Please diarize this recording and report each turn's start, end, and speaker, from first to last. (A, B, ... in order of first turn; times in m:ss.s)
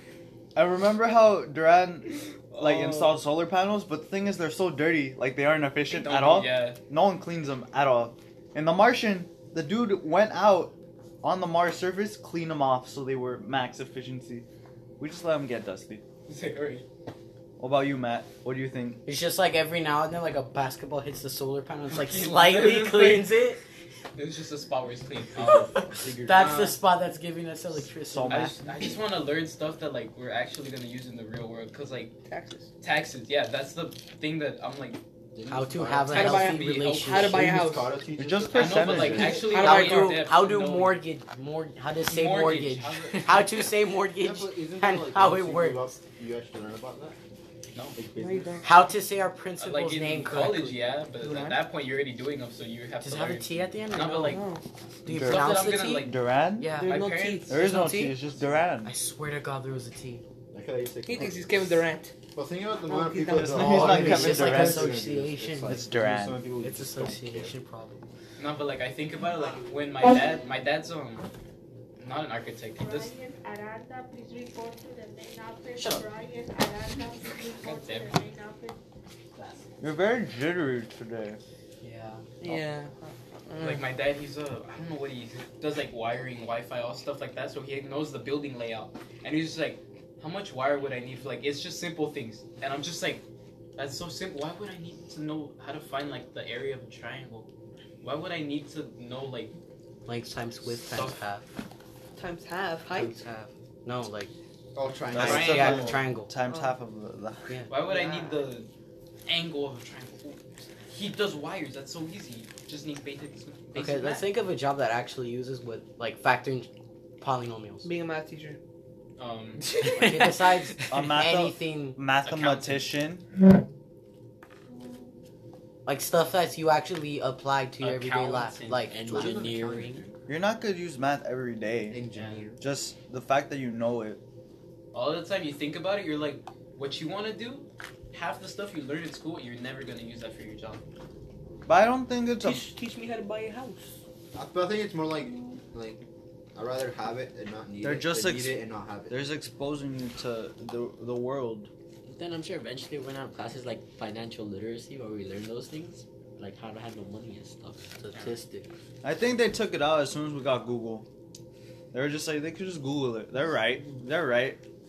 0:00.5-0:14.4 A
0:02.5-0:03.1 B
0:05.9-0:06.8 B
0:15.0-0:16.0 A
0:16.3-0:16.8 B
0:17.6-0:19.0 A
0:19.0-0:23.6 C
0:21.9-0:23.4 B
0:24.1-0:26.8 B
0:25.4-0:26.6 D
0:25.7-0:28.9 C
0:28.0-0:28.8 A
0:28.3-0:32.1 B
0:32.2-0:32.7 E
0:32.8-0:35.0 B
0:35.3-0:36.3 D
0:35.5-0:37.5 C
0:36.1-0:38.0 E
0:36.1-0:37.4 B
0:37.1-0:39.4 D
0:38.2-0:39.4 A
0:38.5-0:41.0 B
0:39.2-0:45.9 C
0:39.3-0:40.2 E
0:42.0-0:43.7 B
0:44.2-0:47.2 D
0:48.0-0:48.6 D
0:48.1-0:48.8 E
0:48.6-0:50.8 C
0:49.6-0:54.5 B
0:51.2-0:51.6 E
0:53.0-0:54.4 C
0:54.2-0:54.6 E
0:55.0-0:58.2 C
0:55.1-0:56.8 A
0:55.1-0:57.6 B
0:56.6-0:57.7 E
0:57.5-0:58.9 A
0:58.8-1:00.2 C
1:00.5-1:01.8 D
1:01.0-1:02.1 E
1:02.3-1:07.6 D
1:02.8-1:04.4 E
1:03.3-1:05.0 A
1:03.6-1:05.8 C
1:05.7-1:06.4 A
1:06.6-1:08.1 C
1:08.4-1:11.3 B
1:12.0-1:13.1 B
1:12.8-1:18.8 F
1:15.8-1:16.0 C
1:17.6-1:18.2 B
1:19.8-1:21.4 A
1:21.8-1:22.3 C
1:22.4-1:23.9 E
1:23.6-1:33.2 B
1:33.8-1:37.5 B
1:38.0-1:39.5 B
1:40.0-1:41.5 C
1:40.9-1:41.2 B
1:42.1-1:43.2 E
1:43.0-1:44.3 C
1:44.7-1:46.0 D
1:45.1-1:47.5 A
1:45.1-1:45.9 B
1:45.2-1:46.3 C
1:46.4-1:46.8 E
1:47.5-1:48.0 C
1:47.7-1:48.7 B
1:47.9-1:48.4 E
1:49.3-1:54.3 B
1:53.7-1:57.9 C
1:57.8-1:58.6 E
1:59.2-1:59.7 B
1:59.6-2:00.3 E
1:59.8-2:02.0 C
2:00.9-2:03.2 A
2:02.2-2:02.9 B
2:05.8-2:10.0 C
2:07.8-2:08.9 B
2:08.9-2:09.7 G
2:09.0-2:10.2 D
2:10.3-2:12.0 A
2:11.9-2:12.6 D
2:12.1-2:12.4 B
2:12.6-2:14.2 A
2:14.9-2:20.8 B
2:21.6-2:22.7 A
2:22.4-2:24.0 E
2:24.3-2:29.2 D
2:27.8-2:31.7 A
2:32.0-2:37.9 G
2:38.0-2:38.7 C
2:39.0-2:41.1 A
2:41.9-2:44.6 A